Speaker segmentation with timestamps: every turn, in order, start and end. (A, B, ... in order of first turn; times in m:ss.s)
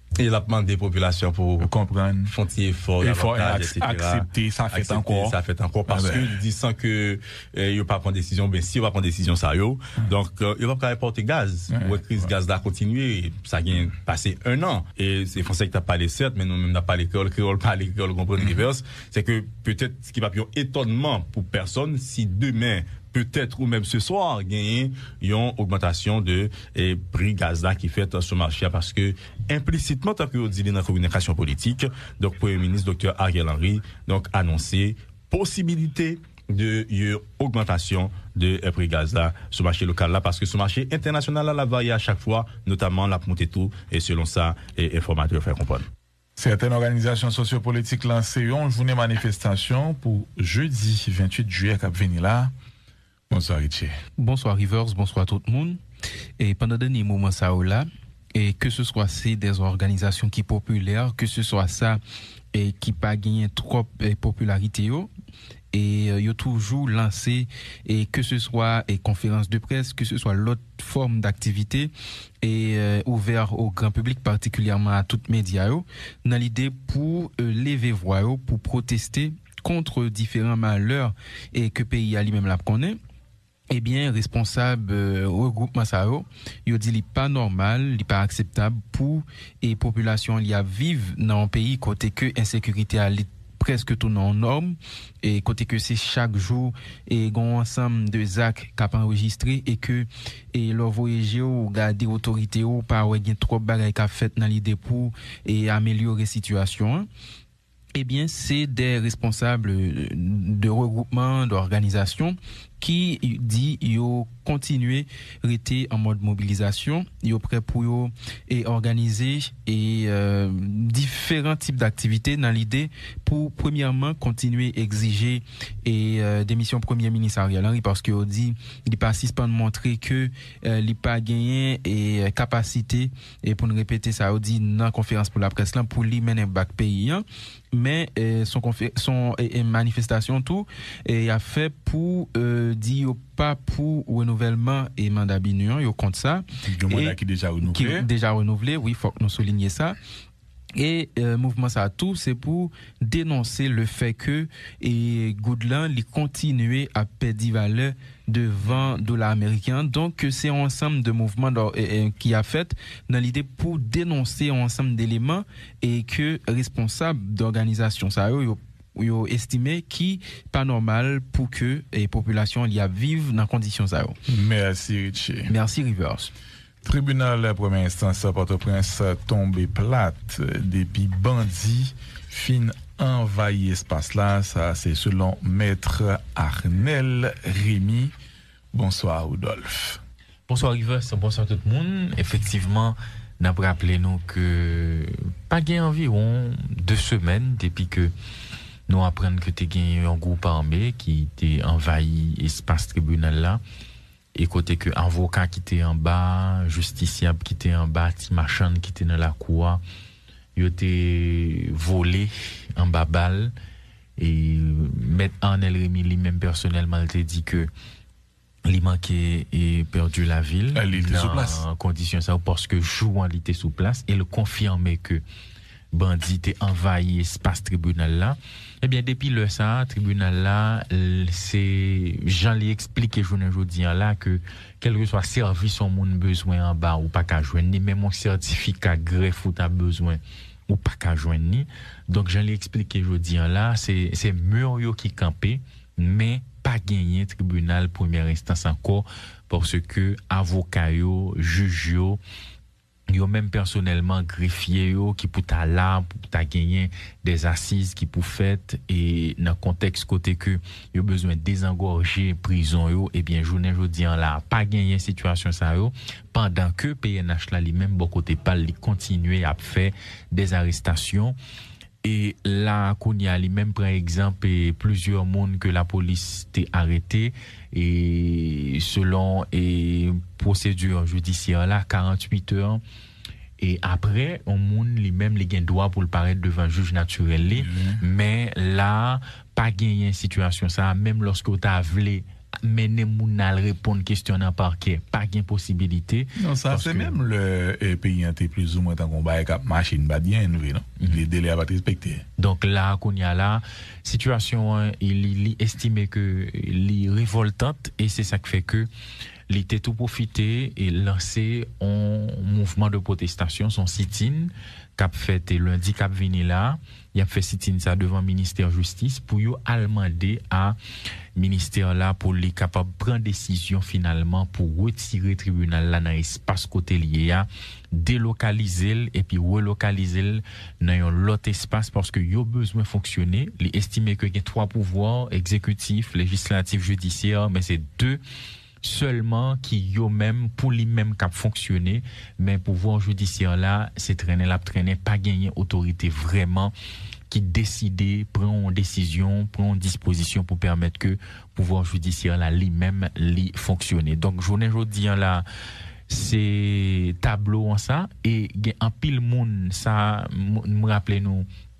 0:00.2-0:01.7 A
0:01.6-0:02.3 B
0:02.3-0:45.9 A
0:03.0-0:05.4 B
0:05.9-0:06.4 B
0:11.7-0:12.3 B
0:18.4-0:18.6 B
0:46.4-0:52.5 B
0:53.3-0:54.0 B
0:54.2-0:55.8 C
0:56.4-1:02.0 C
1:02.5-1:05.1 C
1:05.7-1:11.9 C
1:12.4-1:23.0 C
1:23.7-1:47.1 C
1:47.9-2:30.0 C
2:26.7-2:28.0 B
2:30.8-2:54.2 C
2:54.3-2:55.5 B
2:55.5-2:56.3 C
2:56.8-3:08.1 B
3:08.7-3:10.0 B
3:10.5-3:18.1 D
3:18.9-3:23.6 D
3:24.4-3:29.8 D
3:30.6-3:33.5 D
3:34.2-3:37.7 D
3:38.6-3:45.2 D
3:40.7-3:41.6 B
3:45.9-4:12.2 D
4:13.1-4:31.4 D
4:32.0-4:42.8 D
4:43.6-4:57.2 D
4:47.5-4:48.0 B
4:56.4-5:02.2 B
5:02.4-5:08.9 D
5:09.5-5:20.8 D
5:21.4-5:38.2 D
5:38.8-5:46.7 D
5:47.3-5:55.4 D
5:56.1-6:01.5 D